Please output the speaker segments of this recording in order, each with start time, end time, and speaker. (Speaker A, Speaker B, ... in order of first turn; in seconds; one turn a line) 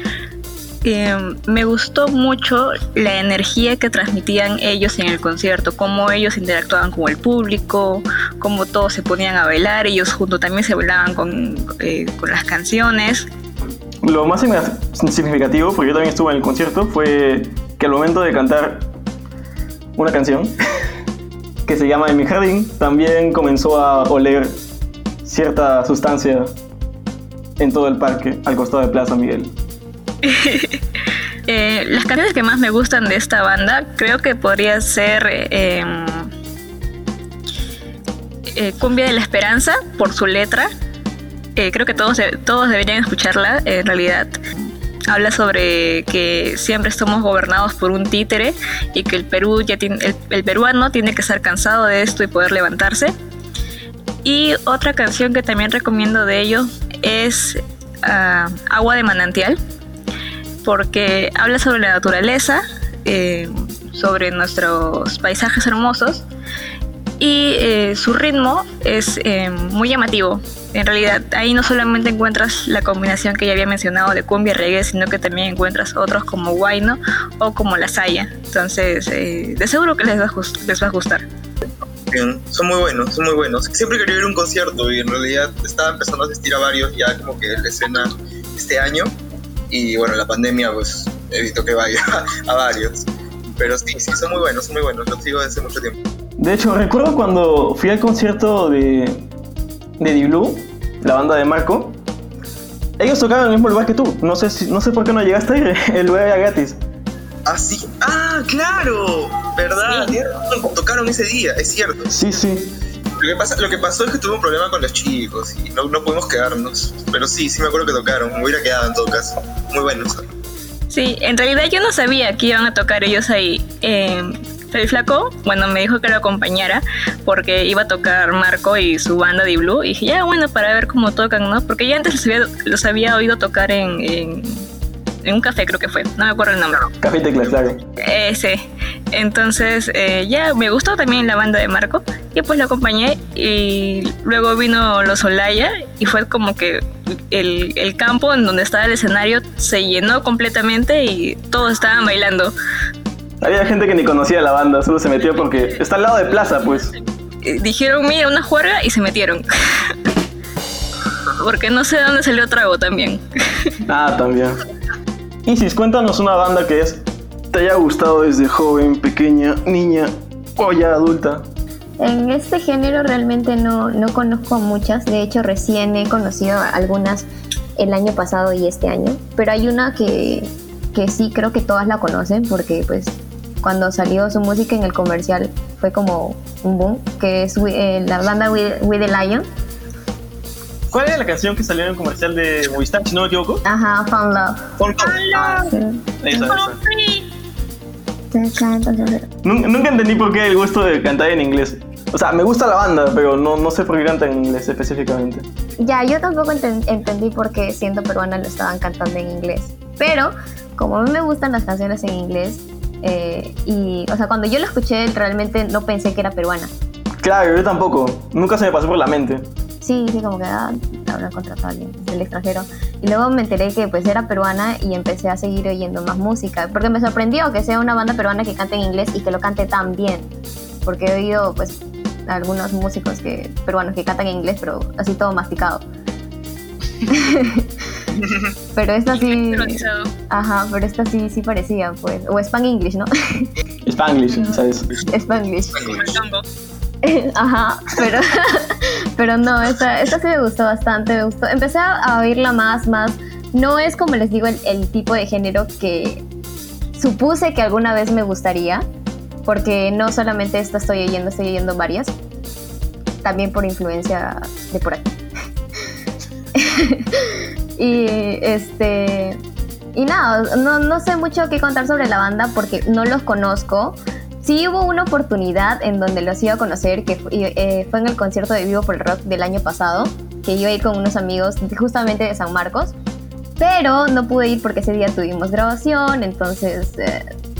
Speaker A: 0.8-13.3
Speaker B: 14.0-18.9
Speaker B: 19.9-20.6
Speaker B: 21.6-24.6
Speaker B: 25.2-26.5
Speaker B: 27.6-29.5
Speaker A: 30.2-30.8
Speaker A: 31.5-36.3
Speaker A: 38.5-40.7
Speaker A: 41.5-44.4
Speaker A: 45.1-53.1
Speaker A: 54.2-59.6
Speaker A: 60.6-66.2
Speaker A: 67.2-81.2
Speaker C: 82.1-89.1
Speaker C: 89.7-93.1
Speaker C: 93.6-95.9
Speaker B: 96.4-99.3
Speaker B: 100.0-102.0
Speaker B: 103.0-106.8
Speaker C: 107.5-112.1
Speaker B: 112.1-112.7
Speaker C: 113.2-120.2
Speaker A: 120.9-134.7
Speaker A: 135.2-136.9
Speaker B: 137.0-137.8
Speaker A: 138.0-152.5
Speaker B: 153.4-156.9
Speaker A: 157.4-159.9
Speaker A: 161.4-163.7
Speaker B: 163.9-164.6
Speaker B: 165.4-171.4
Speaker D: 172.0-189.4
Speaker B: 190.9-193.6
Speaker D: 193.6-194.7
Speaker A: 195.0-195.7
Speaker D: 195.7-196.4
Speaker B: 196.2-196.8
Speaker A: 196.3-197.2
Speaker D: 198.3-199.3
Speaker B: 199.4-205.4
Speaker D: 205.8-216.7
Speaker B: 217.2-219.4
Speaker D: 219.8-230.3
Speaker D: 230.8-235.8
Speaker D: 237.1-237.7
Speaker C: 238.2-238.5
Speaker D: 238.8-243.5
Speaker A: 239.1-240.1
Speaker B: 243.8-244.9
Speaker D: 245.1-246.0
Speaker A: 245.9-246.4
Speaker D: 247.0-256.2
Speaker D: 256.9-258.9
Speaker D: 259.4-262.1
Speaker D: 263.2-265.1
Speaker D: 266.6-269.4
Speaker D: 269.9-282.9
Speaker D: 283.6-287.2